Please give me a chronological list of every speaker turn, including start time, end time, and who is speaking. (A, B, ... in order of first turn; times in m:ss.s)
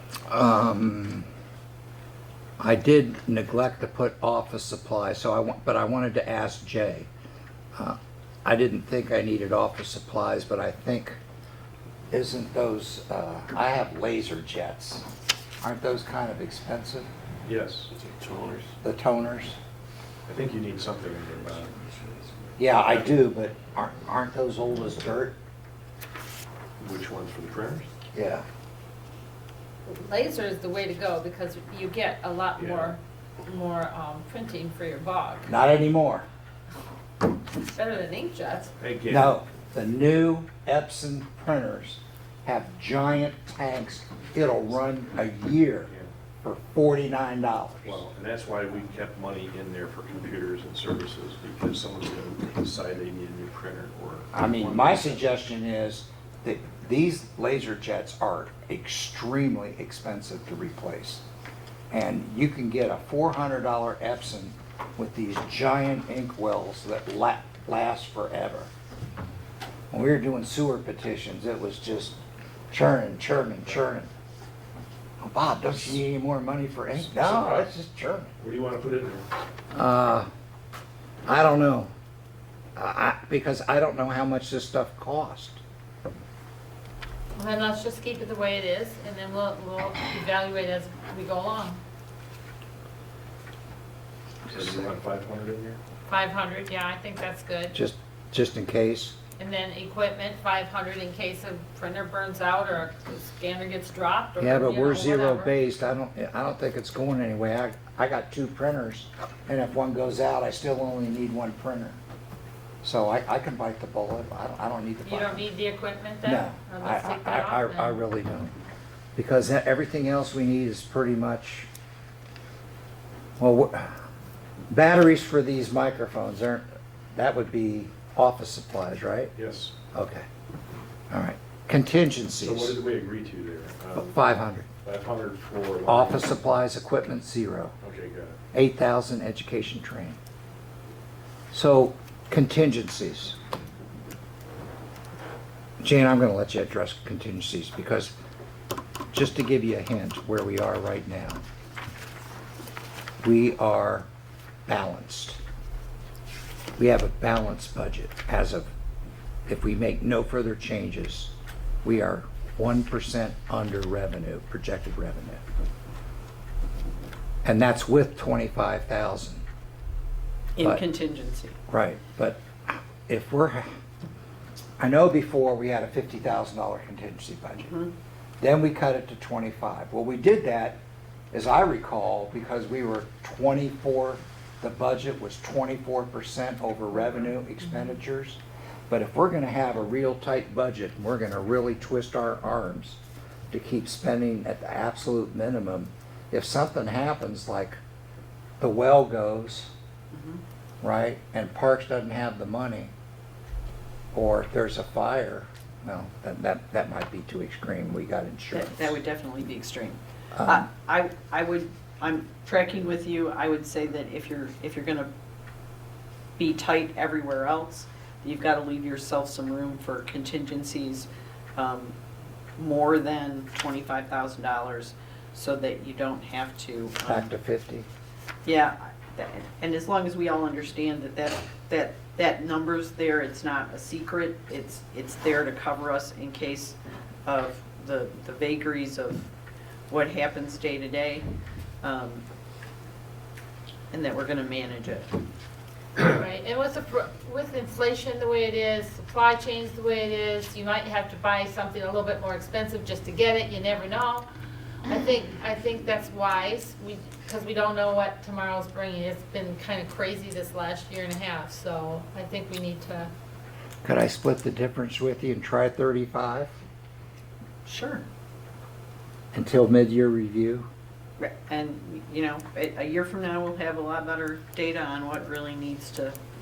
0:00.3-0:01.3 A
0:02.6-0:07.1 A
0:07.7-0:11.2 A
0:12.1-0:15.0 A
0:15.6-0:17.1 A
0:17.4-0:18.6 B
0:18.8-0:19.6 A
0:20.3-0:21.8 B
0:22.6-0:25.4 A
0:26.8-0:27.9 B
0:28.1-0:28.4 A
0:29.9-0:35.7 C
0:32.6-0:32.9 B
0:35.4-0:36.2 A
0:37.6-0:38.7 C
0:38.8-0:39.4 B
0:39.1-0:45.9 A
0:46.4-0:48.0 A
0:47.8-0:55.2 B
0:54.3-1:01.2 A
1:01.9-1:08.7 A
1:09.9-1:12.2 A
1:12.7-1:14.1 A
1:15.2-1:18.3 A
1:16.9-1:17.7 B
1:18.4-1:19.2 B
1:19.7-1:20.3 A
1:21.2-1:21.9 A
1:22.8-1:25.6 A
1:27.3-1:31.8 C
1:34.5-1:35.8 B
1:36.1-1:37.8 C
1:37.7-1:39.2 A
1:39.4-1:45.5 C
1:44.4-1:52.0 A
1:52.8-1:55.5 A
1:55.0-1:58.0 C
1:56.2-1:58.5 A
1:59.1-2:01.7 A
2:03.4-2:04.0 A
2:04.7-2:09.3 A
2:09.3-2:09.7 B
2:09.9-2:10.2 A
2:11.1-2:12.8 A
2:12.4-2:14.2 B
2:13.9-2:14.7 A
2:14.8-2:16.3 B
2:15.8-2:17.7 A
2:17.8-2:18.4 B
2:18.5-2:20.2 A
2:21.5-2:23.4 A
2:25.8-2:28.1 A
2:29.1-2:31.4 A
2:33.2-2:34.1 A
2:34.7-2:35.4 A
2:36.8-2:38.7 A
2:39.5-2:41.3 A
2:41.8-2:45.4 A
2:47.4-2:49.4 A
2:50.6-2:51.6 D
2:51.7-2:53.7 A
2:54.8-2:57.7 A
2:57.6-2:57.9 D
2:58.4-3:00.8 A
3:01.3-3:13.0 A
3:13.5-3:17.8 A
3:18.6-3:19.7 A
3:20.1-3:20.4 D
3:20.8-3:22.9 A
3:24.1-3:29.0 A
3:28.5-3:35.1 D
3:30.4-3:30.6 A
3:36.4-3:41.9 D
3:42.6-3:47.3 D
3:47.0-3:47.9 A
3:48.4-3:59.3 D
3:59.9-4:01.2 D
4:01.8-4:02.2 D
4:03.9-4:05.1 D
4:06.0-4:14.3 C
4:14.9-4:23.1 C
4:23.8-4:26.5 A
4:27.6-4:28.0 D
4:29.3-4:30.7 A
4:31.2-4:36.2 D